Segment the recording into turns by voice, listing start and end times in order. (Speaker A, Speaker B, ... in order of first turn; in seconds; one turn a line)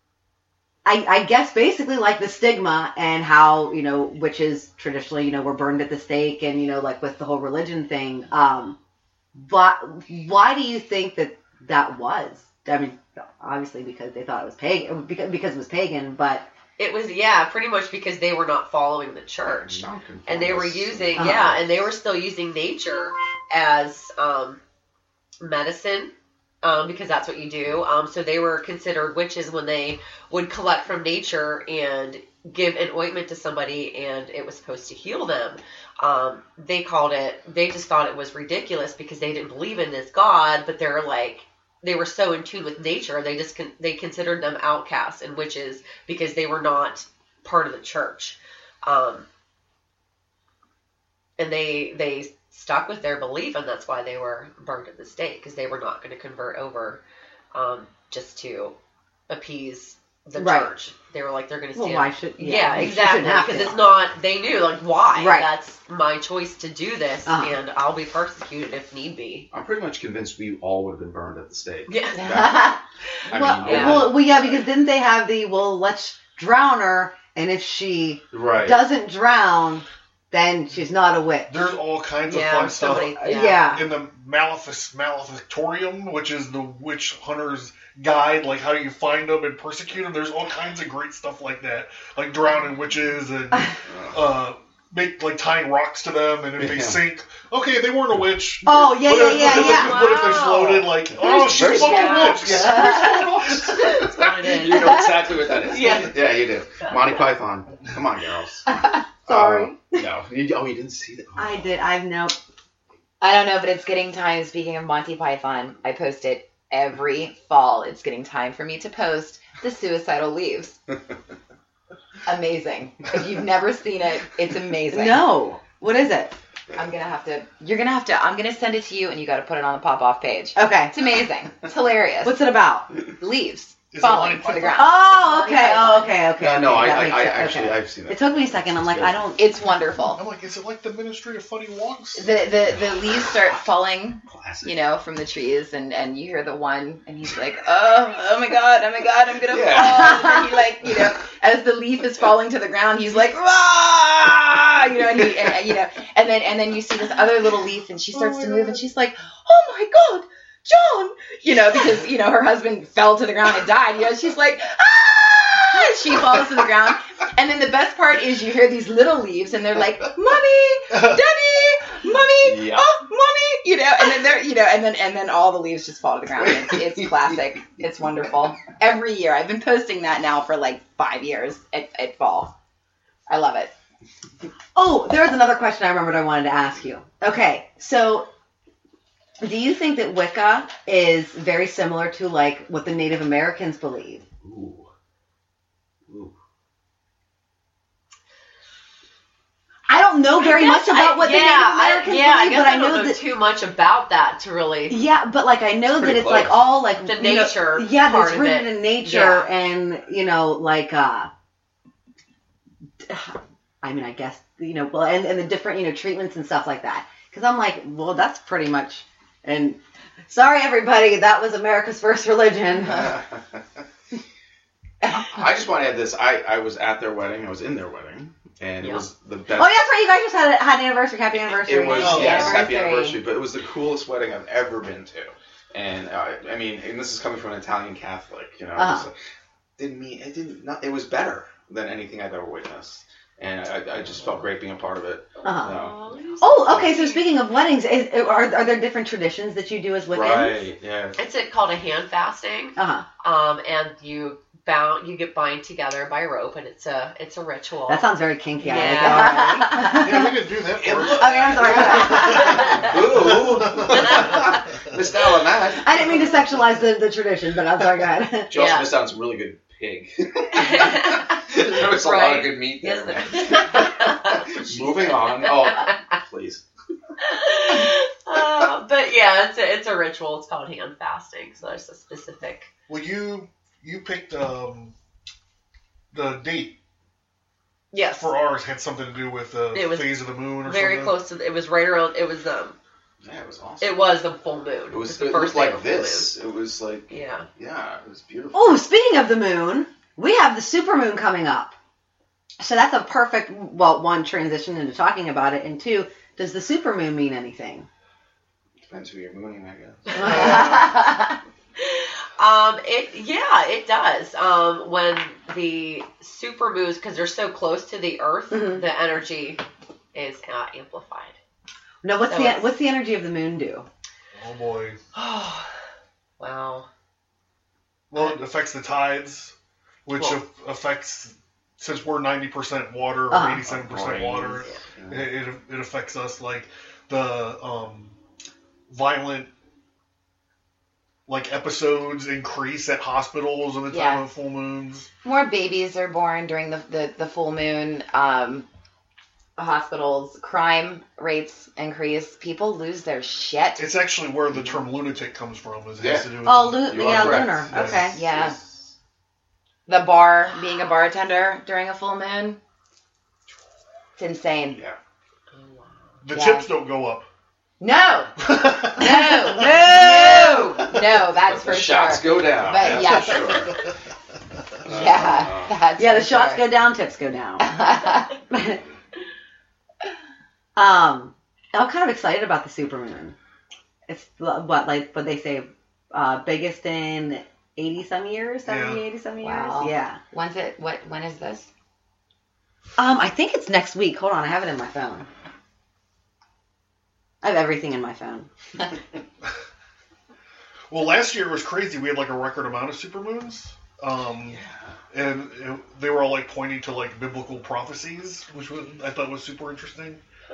Speaker A: 0.8-8.8
Speaker A: 9.3-16.5
Speaker B: 16.8-24.6
Speaker C: 19.5-21.9
Speaker A: 21.2-21.5
Speaker B: 25.4-26.1
Speaker B: 26.6-49.3
Speaker B: 51.4-57.0
Speaker B: 57.5-58.8
Speaker B: 59.3-69.5
Speaker A: 60.4-60.7
Speaker A: 61.8-63.9
Speaker A: 65.2-65.5
Speaker A: 67.3-67.5
Speaker C: 69.5-72.8
Speaker B: 71.9-72.4
Speaker D: 72.2-72.8
Speaker C: 73.3-74.6
Speaker A: 73.3-81.6
Speaker B: 73.6-74.1
Speaker C: 78.3-78.8
Speaker E: 81.5-104.1
Speaker B: 82.3-83.8
Speaker A: 83.2-83.8
Speaker B: 92.4-92.7
Speaker C: 93.9-94.2
Speaker C: 96.6-97.0
Speaker A: 98.6-100.1
Speaker B: 99.2-101.0
Speaker C: 101.3-108.7
Speaker A: 101.6-102.8
Speaker B: 101.6-102.6
Speaker B: 103.6-105.1
Speaker B: 105.7-106.2
Speaker B: 106.8-107.1
Speaker A: 109.2-110.0
Speaker C: 109.3-111.7
Speaker A: 111.4-112.4
Speaker D: 113.2-120.8
Speaker D: 122.3-125.3
Speaker A: 124.9-126.3
Speaker D: 126.7-132.4
Speaker A: 130.6-131.0
Speaker A: 132.2-132.9
Speaker D: 133.2-136.1
Speaker E: 133.9-134.9
Speaker A: 134.7-139.4
Speaker C: 136.4-139.2
Speaker D: 139.4-140.2
Speaker E: 140.1-142.4
Speaker D: 142.2-182.5
Speaker C: 144.3-144.7
Speaker C: 149.5-150.3
Speaker E: 170.9-171.2
Speaker C: 172.4-172.9
Speaker C: 176.4-177.2
Speaker D: 183.3-183.7
Speaker A: 184.8-188.3
Speaker A: 189.4-194.2
Speaker C: 194.4-194.9
Speaker C: 196.1-196.3
Speaker A: 199.9-203.2
Speaker B: 200.4-205.0
Speaker A: 204.9-211.3
Speaker C: 205.9-206.7
Speaker B: 207.0-209.5
Speaker A: 213.0-223.2
Speaker C: 222.9-223.6
Speaker C: 225.2-229.8
Speaker A: 229.6-232.5
Speaker C: 231.5-239.2
Speaker D: 232.0-233.2
Speaker E: 232.0-232.6
Speaker A: 238.8-239.1
Speaker C: 239.8-246.9
Speaker B: 245.4-247.3
Speaker A: 245.4-245.7
Speaker A: 246.4-250.6
Speaker C: 250.1-251.2
Speaker B: 251.2-259.5
Speaker A: 252.8-253.1
Speaker A: 257.9-260.3
Speaker D: 258.7-260.0
Speaker E: 259.7-264.4
Speaker C: 260.7-266.2
Speaker A: 261.2-262.7
Speaker B: 263.9-264.3
Speaker A: 265.8-268.5
Speaker C: 268.5-276.6
Speaker B: 268.5-268.9
Speaker B: 270.5-276.0
Speaker B: 277.2-282.7
Speaker E: 282.9-284.9
Speaker E: 286.1-286.8
Speaker B: 287.9-288.3
Speaker E: 288.1-291.2
Speaker B: 289.7-292.8
Speaker C: 293.2-294.1
Speaker B: 293.8-296.3
Speaker C: 294.9-298.9
Speaker B: 297.1-297.5
Speaker A: 298.5-301.7
Speaker A: 302.6-307.9
Speaker C: 308.8-310.9
Speaker B: 310.2-310.6
Speaker D: 310.5-311.2
Speaker B: 311.8-319.6
Speaker A: 318.5-318.8
Speaker B: 320.1-321.4
Speaker A: 322.0-323.9
Speaker B: 322.3-322.7
Speaker E: 324.4-325.0
Speaker B: 325.1-325.7
Speaker B: 326.4-326.9
Speaker E: 328.1-329.5
Speaker E: 330.1-338.1
Speaker A: 333.3-333.6
Speaker C: 333.6-335.3
Speaker E: 338.9-339.5
Speaker E: 341.3-345.1
Speaker D: 343.9-344.3
Speaker D: 345.2-348.7
Speaker D: 349.6-353.9
Speaker E: 353.8-358.1
Speaker C: 354.5-354.8
Speaker C: 356.0-358.9
Speaker A: 356.4-358.2
Speaker D: 358.1-358.6
Speaker D: 359.9-362.6
Speaker D: 364.2-364.8
Speaker C: 364.7-365.0
Speaker B: 365.5-365.9
Speaker E: 366.2-367.3
Speaker D: 366.3-366.7
Speaker D: 367.8-368.4
Speaker E: 368.4-369.9
Speaker D: 368.9-373.7
Speaker A: 369.0-370.6
Speaker C: 371.4-373.8
Speaker C: 374.9-375.8
Speaker D: 374.9-376.8
Speaker A: 376.0-377.7
Speaker D: 377.6-378.3
Speaker A: 378.5-378.8
Speaker A: 380.8-383.4
Speaker A: 384.1-390.2
Speaker E: 388.7-389.1
Speaker D: 389.4-391.7
Speaker A: 393.0-395.3
Speaker A: 397.4-398.5
Speaker E: 400.9-404.6
Speaker C: 404.4-405.0
Speaker E: 405.1-410.2